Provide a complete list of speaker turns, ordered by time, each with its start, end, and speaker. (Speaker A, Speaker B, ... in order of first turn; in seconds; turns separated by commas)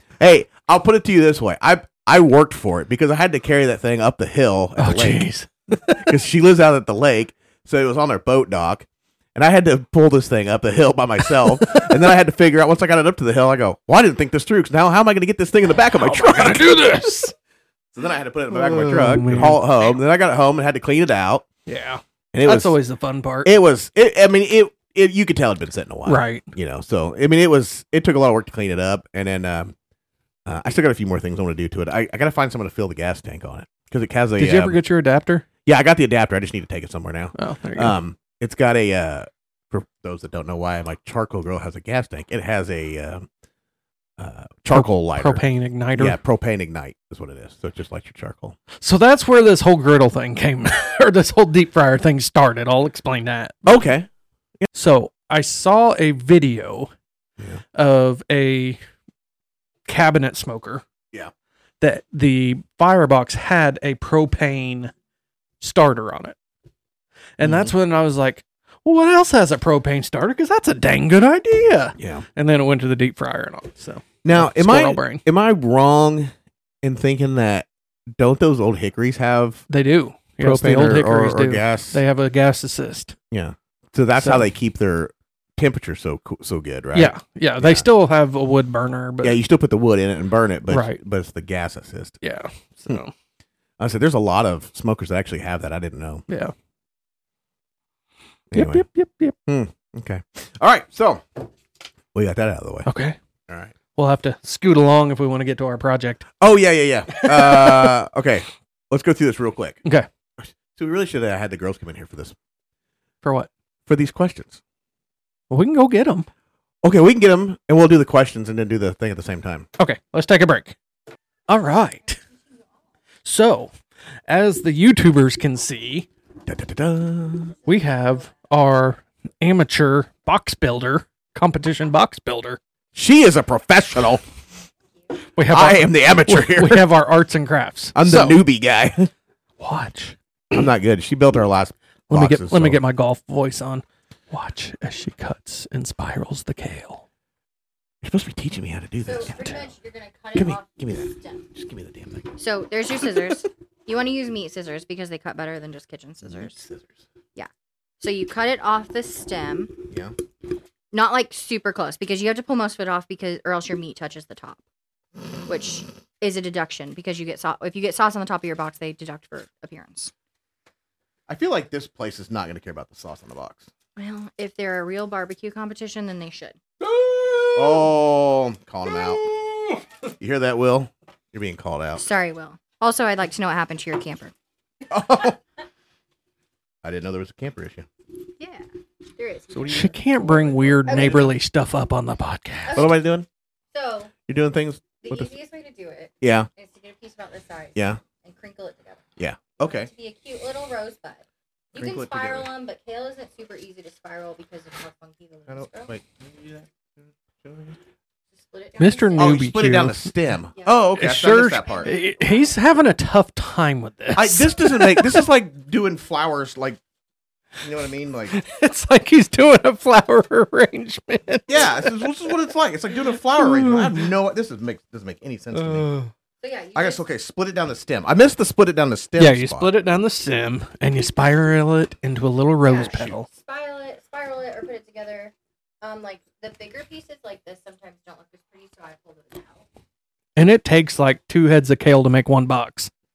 Speaker A: 0.2-5.3, Speaker B: 4.8-5.5, Speaker A: 5.8-17.1, Speaker B: 15.9-17.3, Speaker A: 17.9-21.4, Speaker B: 18.5-19.6, Speaker B: 21.6-23.5, Speaker A: 22.3-22.8, Speaker A: 23.4-29.7, Speaker B: 26.1-26.5, Speaker A: 30.4-34.8, Speaker B: 34.4-35.5, Speaker A: 35.6-43.2, Speaker B: 37.4-38.0, Speaker A: 44.2-45.4, Speaker B: 44.7-46.2, Speaker A: 46.0-48.6, Speaker B: 48.8-53.6, Speaker A: 53.6-54.1, Speaker B: 54.7-56.9, Speaker B: 57.7-58.8, Speaker B: 59.9-60.8, Speaker B: 61.8-64.9, Speaker B: 65.6-66.4, Speaker B: 67.4-75.2, Speaker A: 67.4-67.7, Speaker A: 72.0-72.2, Speaker A: 74.2-76.3, Speaker A: 76.8-79.6, Speaker B: 79.7-83.2, Speaker A: 80.4-82.0, Speaker A: 83.3-87.9, Speaker B: 84.2-84.5, Speaker B: 86.9-89.4, Speaker A: 89.2-92.2, Speaker B: 90.7-91.0, Speaker B: 92.2-93.1, Speaker A: 93.8-96.2, Speaker A: 98.5-98.9, Speaker B: 98.5-99.4, Speaker A: 99.5-101.2, Speaker A: 102.1-102.9, Speaker B: 102.9-103.2, Speaker A: 103.5-103.7, Speaker B: 103.9-106.3, Speaker A: 106.4-109.8, Speaker B: 107.1-107.9, Speaker A: 110.4-112.4, Speaker B: 113.2-113.5, Speaker A: 113.9-114.6, Speaker B: 115.5-116.3, Speaker A: 116.8-119.7, Speaker B: 119.8-120.8, Speaker B: 121.5-122.2, Speaker B: 123.2-123.7, Speaker B: 124.3-126.1, Speaker A: 126.5-127.5, Speaker B: 127.7-132.6, Speaker C: 127.7-128.3, Speaker A: 132.9-134.2, Speaker B: 135.3-138.4, Speaker A: 135.5-136.9, Speaker A: 137.9-139.1, Speaker B: 139.6-140.2, Speaker A: 140.5-142.8, Speaker B: 142.1-147.1, Speaker A: 148.0-149.7, Speaker C: 149.1-151.5, Speaker A: 150.3-152.3, Speaker C: 152.4-156.6, Speaker A: 156.2-157.0, Speaker C: 158.0-159.8, Speaker C: 160.9-164.6, Speaker C: 165.5-170.1, Speaker A: 171.3-173.7, Speaker C: 173.9-176.6, Speaker B: 177.0-177.5, Speaker A: 177.5-179.2, Speaker A: 180.2-182.0, Speaker C: 181.9-184.3, Speaker A: 184.9-185.4, Speaker A: 186.8-187.9, Speaker C: 188.4-189.9, Speaker A: 189.5-191.3, Speaker B: 189.7-192.9, Speaker C: 190.9-191.3, Speaker C: 192.7-193.0, Speaker A: 192.7-193.2, Speaker C: 193.7-194.1, Speaker A: 194.2-195.3, Speaker C: 195.0-205.9, Speaker A: 196.2-196.5, Speaker A: 197.8-198.0, Speaker A: 199.2-199.9, Speaker A: 201.7-202.5, Speaker A: 205.5-207.8, Speaker C: 208.4-209.5, Speaker B: 208.8-210.1, Speaker A: 209.2-211.9, Speaker C: 210.6-212.6, Speaker B: 210.9-215.2, Speaker A: 214.1-216.8, Speaker A: 217.6-218.4, Speaker B: 218.3-222.1, Speaker A: 221.5-225.9, Speaker B: 223.4-224.0, Speaker B: 225.5-226.1, Speaker C: 226.4-227.1, Speaker A: 226.7-229.7, Speaker B: 229.2-233.3, Speaker C: 232.6-239.6, Speaker B: 240.4-242.9